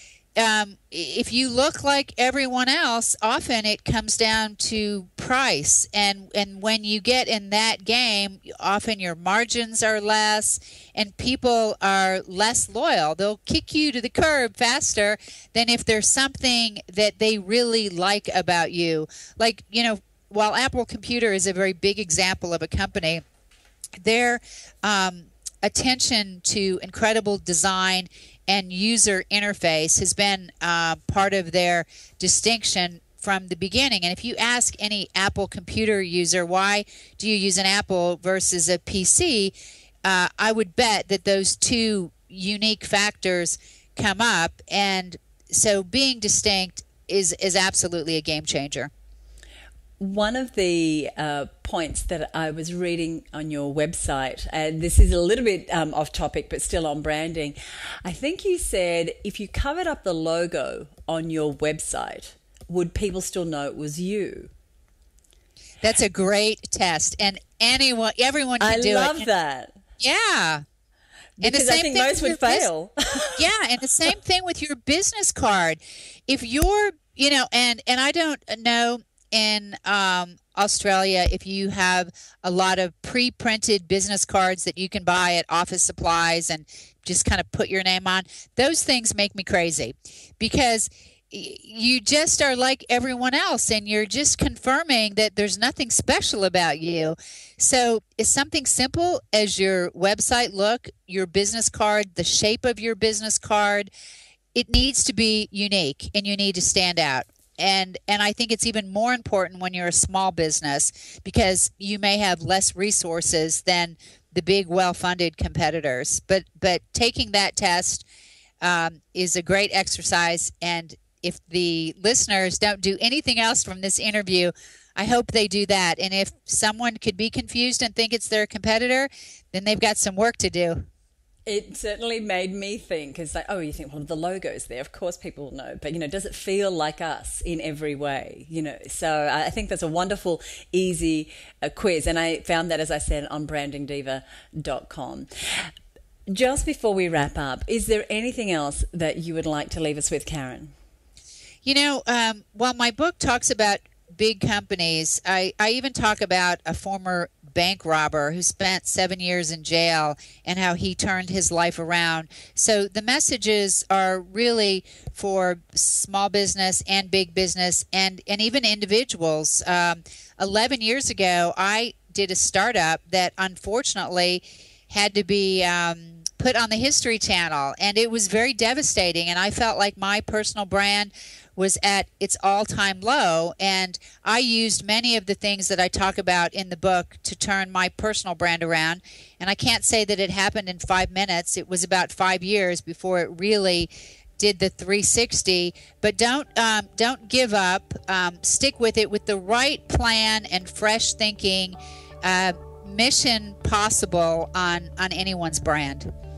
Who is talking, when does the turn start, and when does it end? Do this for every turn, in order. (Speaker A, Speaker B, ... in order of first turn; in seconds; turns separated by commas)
Speaker A: 0.4-23.2, Speaker A: 24.0-48.9, Speaker B: 50.0-64.5, Speaker A: 65.8-69.3, Speaker B: 68.6-69.8, Speaker A: 70.0-70.6, Speaker B: 71.4-73.4, Speaker A: 71.4-72.7, Speaker A: 73.3-103.9, Speaker A: 104.5-118.1, Speaker A: 118.6-130.8, Speaker B: 131.4-145.7, Speaker B: 146.3-150.7, Speaker A: 151.6-206.1